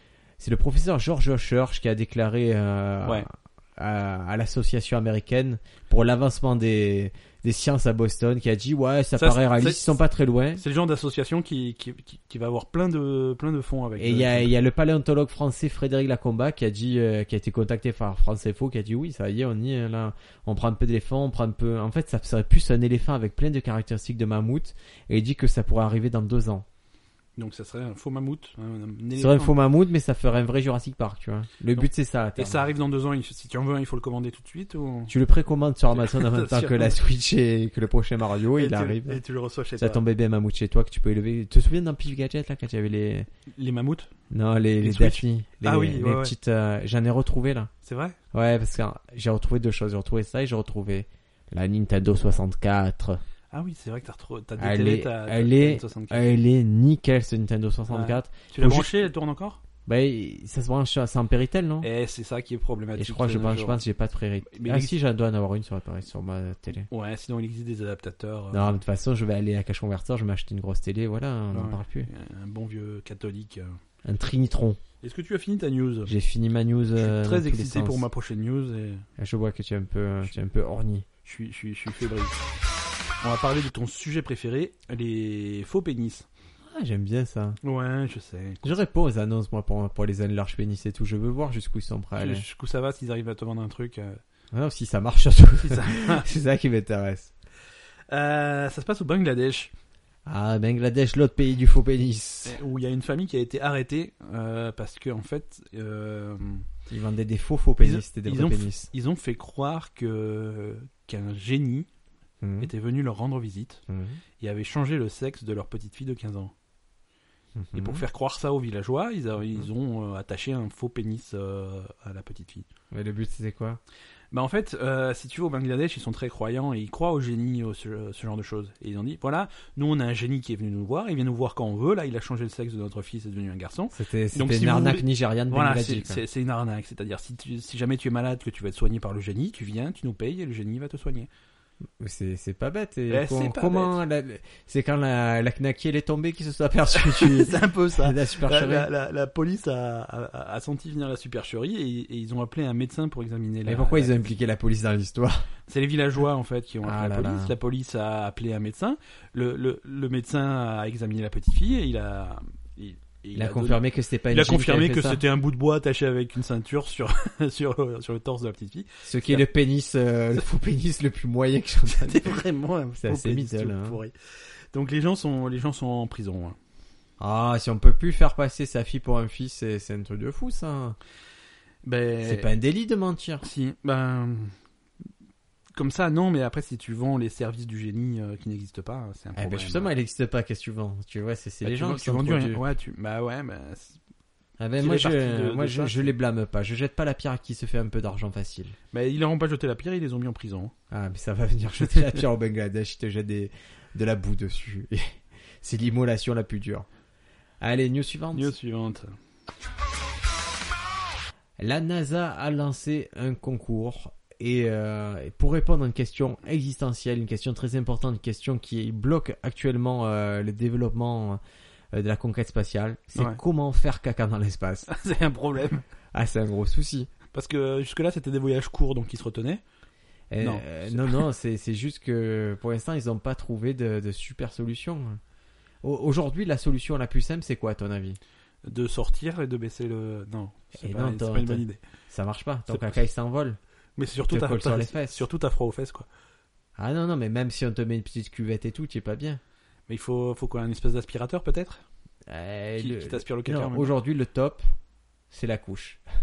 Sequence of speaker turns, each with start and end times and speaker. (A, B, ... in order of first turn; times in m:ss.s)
0:00.4-0:10.6 A
0:09.2-0:10.0 B
0:10.6-0:14.5 B
0:14.0-0:26.6 A
0:27.4-0:29.6 B
0:29.2-0:32.6 A
0:31.7-0:35.1 B
0:35.1-0:39.2 A
0:36.0-0:37.0 B
0:38.5-0:40.0 B
0:39.8-0:43.3 A
0:43.5-0:44.1 B
0:44.3-0:47.7 A
0:44.8-0:46.3 B
0:47.8-0:48.2 B
0:48.3-0:53.2 A
0:53.5-0:56.3 B
0:54.6-0:58.9 A
0:57.9-0:59.6 B
0:59.8-1:01.9 A
1:01.8-1:03.8 B
1:03.0-1:06.9 A
1:04.5-1:04.9 B
1:06.9-1:08.8 B
1:08.5-1:12.1 A
1:11.5-1:13.8 B
1:14.0-1:14.8 A
1:15.0-1:16.1 B
1:16.0-1:18.0 A
1:17.0-1:19.0 B
1:19.2-1:21.0 A
1:21.2-1:22.4 B
1:23.2-1:26.3 B
1:26.7-1:27.6 A
1:27.6-1:28.7 B
1:28.6-1:32.4 A
1:32.2-1:34.2 B
1:34.5-1:37.3 A
1:35.6-1:36.2 B
1:38.1-1:39.7 B
1:40.2-1:42.6 A
1:42.4-1:46.7 B
1:46.9-1:48.9 A
1:47.8-1:51.9 B
1:52.4-1:52.7 A
1:52.6-1:53.8 B
1:53.9-1:54.2 A
1:54.4-1:56.5 B
1:57.5-1:58.0 A
1:57.7-2:02.7 B
2:02.9-2:03.8 A
2:04.3-2:21.3 B
2:13.9-2:16.2 A
2:22.0-2:28.9 A
2:23.1-2:24.0 B
2:26.9-2:34.3 B
2:33.7-2:35.5 A
2:35.7-2:49.4 B
2:36.8-2:37.5 A
2:43.3-2:45.2 A
2:49.0-2:52.3 A
2:51.9-2:54.1 B
2:53.0-2:54.0 A
2:54.7-2:56.6 B
2:57.2-3:01.0 A
3:01.8-3:02.5 B
3:02.2-3:03.4 A
3:03.4-3:04.5 B
3:05.7-3:09.9 B
3:09.4-3:12.6 A
3:11.6-3:14.0 B
3:14.6-3:18.8 A
3:14.8-3:16.1 B
3:18.9-3:20.7 B
3:20.9-3:26.9 A
3:27.6-3:28.5 A
3:28.3-3:29.2 B
3:31.6-3:41.4 A
3:41.9-3:44.9 A
3:44.9-3:45.8 B
3:46.1-3:47.1 A
3:47.3-3:49.6 B
3:50.3-3:55.2 A
3:50.4-3:51.2 B
3:55.8-3:58.2 A
3:58.6-4:01.8 B
4:00.8-4:03.6 A
4:02.7-4:02.9 B
4:04.0-4:06.1 B
4:04.2-4:05.2 A
4:06.8-4:09.4 A
4:09.9-4:11.8 B
4:12.3-4:14.6 A
4:12.8-4:13.9 B
4:15.3-4:16.0 A